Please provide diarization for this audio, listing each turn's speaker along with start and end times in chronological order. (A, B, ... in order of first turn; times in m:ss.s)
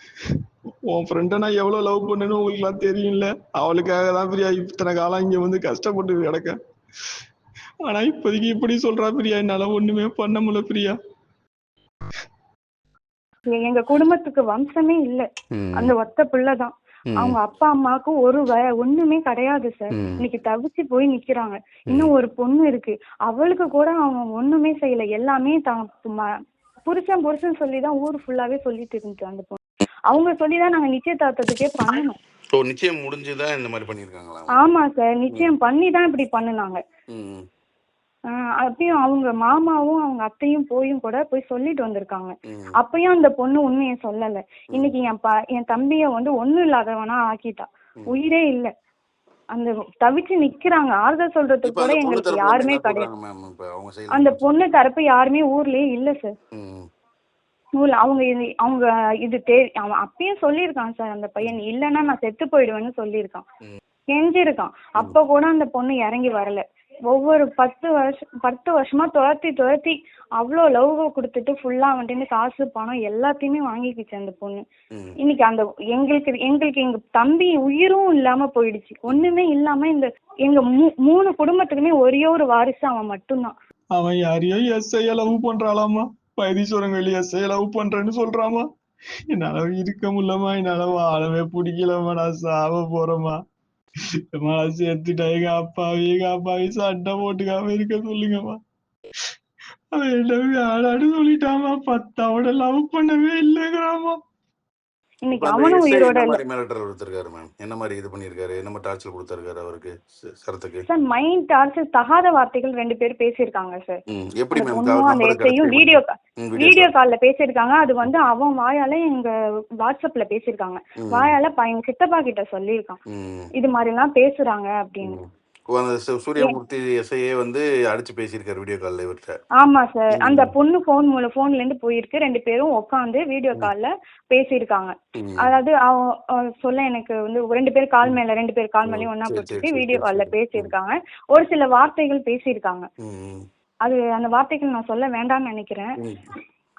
0:00.9-0:06.6 A
0:07.8-0:11.0 A
0:13.5-0:26.3 B
0:15.5-0:15.9 C
0:19.9-0:20.2 C
0:26.8-0:29.6 B
0:30.1-0:32.2 B
0:32.5-0:34.5 C
0:34.6-0:36.8 B
0:37.1-0:37.4 C
0:38.6-0:48.7 B
0:49.5-0:53.1 B
0:51.6-0:54.5 C
0:54.1-0:56.4 B
0:56.5-0:56.9 C
0:57.8-1:03.5 B
1:04.1-1:14.6 B
1:15.2-1:23.5 B
1:24.0-1:28.7 A
1:29.3-1:33.4 A
1:34.3-1:38.6 A
1:39.9-1:44.2 A
1:45.2-1:46.4 B
1:45.3-1:50.8 C
1:50.9-1:54.0 B
1:54.1-1:56.9 C
1:54.5-1:59.3 B
1:59.8-2:03.0 B
2:01.0-2:01.3 C
2:03.1-2:03.5 C
2:03.6-2:05.2 B
2:05.0-2:09.4 C
2:09.6-2:22.9 B
2:10.2-2:10.5 C
2:15.2-2:15.5 C
2:18.8-2:20.7 C
2:23.0-2:23.4 C
2:23.8-2:25.9 B